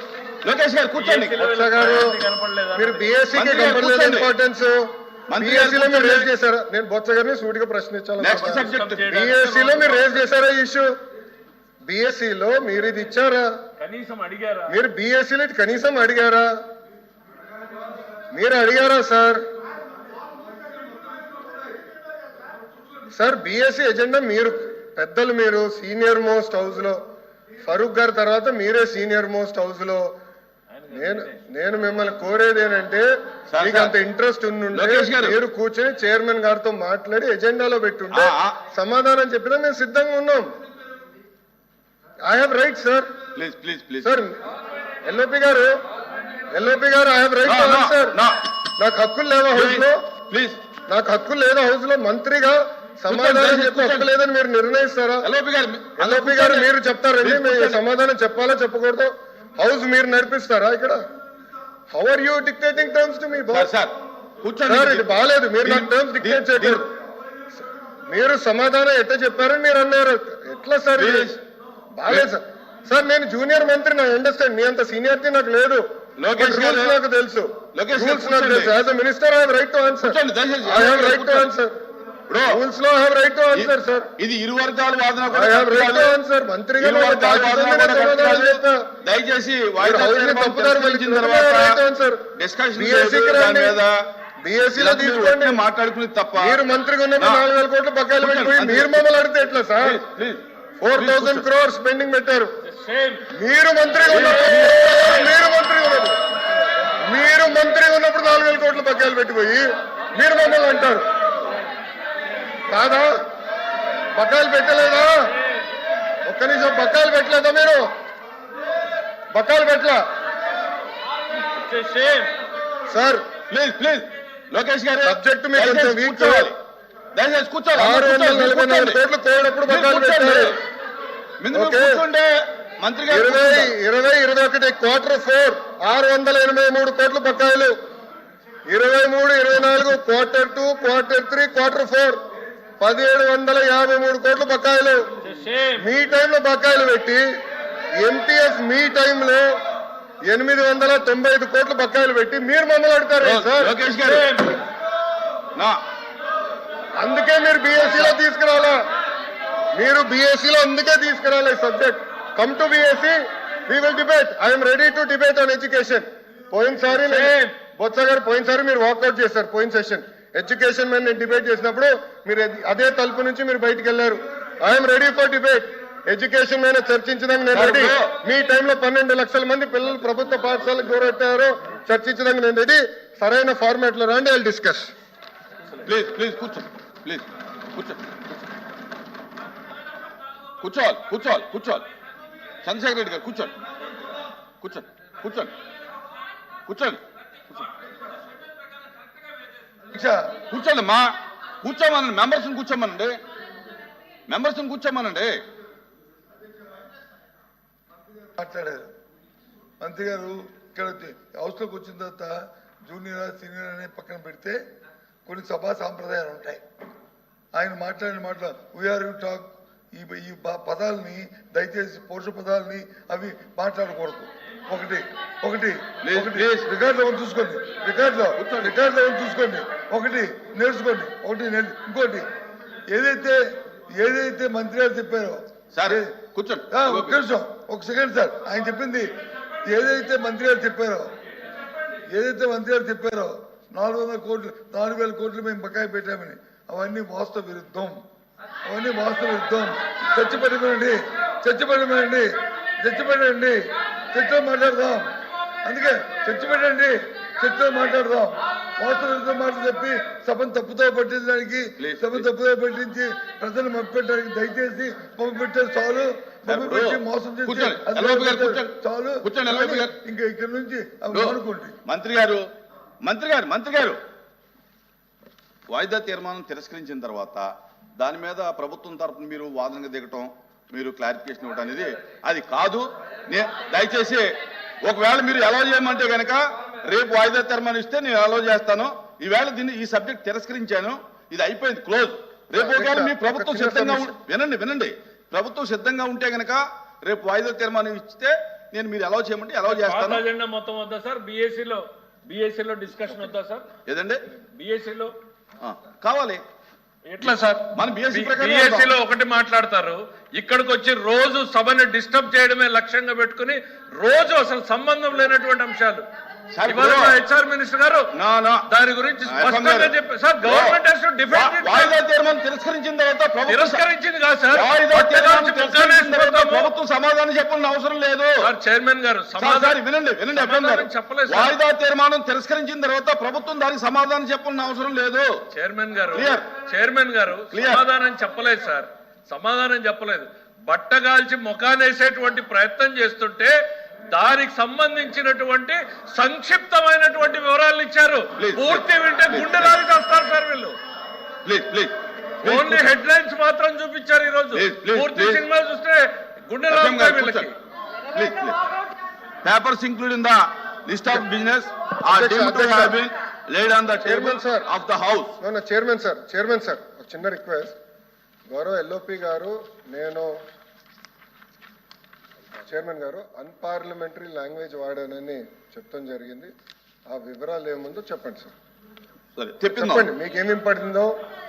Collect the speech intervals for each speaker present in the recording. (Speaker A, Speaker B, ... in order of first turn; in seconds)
Speaker A: 0.4-1.4, 3.3-4.3, 5.3-6.3, 8.2-9.1, 33.5-33.9, 34.7-35.4, 38.1-38.6, 43.4-44.1, 47.4-48.4, 49.5-50.6, 53.1-54.1, 55.2-56.7, 57.2-57.8, 63.5-65.1, 65.6-66.8, 71.0-71.4, 76.2-77.0, 77.7-78.7, 80.0-81.5, 82.3-82.6, 83.5-86.2, 86.8-91.8, 92.3-94.0, 94.7-96.6, 97.2-97.4, 98.2-99.0, 99.8-100.4, 100.9-101.5, 104.1-104.9, 123.5-126.6, 127.1-129.0, 129.7-130.6, 131.4-133.7, 153.2-154.3, 177.5-178.1, 185.8-188.2, 190.6-191.8, 192.6-193.5, 194.6-195.5, 196.7-197.6, 200.5-201.1, 201.6-203.2, 204.3-205.4, 226.0-226.7, 228.3-228.7, 235.7-237.2, 261.8-262.3, 266.4-269.9, 271.1-272.4, 273.0-274.0, 275.7-300.2, 303.9-304.2, 305.6-306.4, 307.2-308.9, 316.5-317.1, 318.1-318.6, 319.3-320.8, 321.3-323.8, 324.5-328.4, 329.4-335.4, 336.1-336.4, 337.5-337.8, 348.4-349.8, 351.4-352.8, 354.5-355.4, 356.7-357.5, 358.1-358.6, 359.4-365.3, 379.4-380.1
Speaker B: 0.9-3.1, 8.5-10.2, 13.8-14.8, 30.8-31.4, 102.7-103.2, 121.4-122.3, 145.2-145.9, 154.0-154.6, 166.9-167.5, 299.7-303.6, 304.6-305.1, 307.1-316.0, 316.6-318.1, 318.7-322.0, 323.5-326.7, 328.4-329.8, 330.3-331.6, 335.5-343.6, 344.1-350.8, 352.4-357.5
Speaker C: 1.4-2.2, 2.7-10.9, 11.8-13.5, 14.7-16.5, 18.3-19.4, 23.1-27.0, 27.6-30.1, 30.9-33.1, 33.6-40.5, 42.2-43.1, 44.0-44.4, 45.0-45.7, 46.5-48.2, 48.8-50.0, 50.9-55.3, 56.0-61.0, 61.9-63.7, 64.7-66.9, 68.1-71.4, 72.0-75.8, 76.3-81.7, 82.4-84.1, 85.3-88.9, 89.8-93.8, 94.4-95.6, 96.4-100.0, 100.8-102.5, 103.3-106.2, 107.0-111.0, 112.7-113.1, 114.1-115.3, 116.2-117.9, 119.3-120.0, 122.9-123.2, 125.0-126.5, 127.7-130.6, 131.5-132.0, 133.1-137.7, 138.7-142.2, 142.8-145.1, 145.8-147.2, 148.0-149.5, 150.2-153.8, 157.0-158.8, 159.7-184.9, 292.5-294.1, 362.1-363.0, 364.0-364.7, 365.4-367.7, 368.5-370.3, 372.7-376.5, 377.1-378.5, 379.7-381.1
Speaker D: 199.9-200.3, 208.3-208.9, 209.8-214.6, 215.2-216.6, 217.5-232.2, 232.9-236.1, 236.7-239.1, 239.6-241.1, 242.1-248.0, 248.6-255.1, 255.6-271.8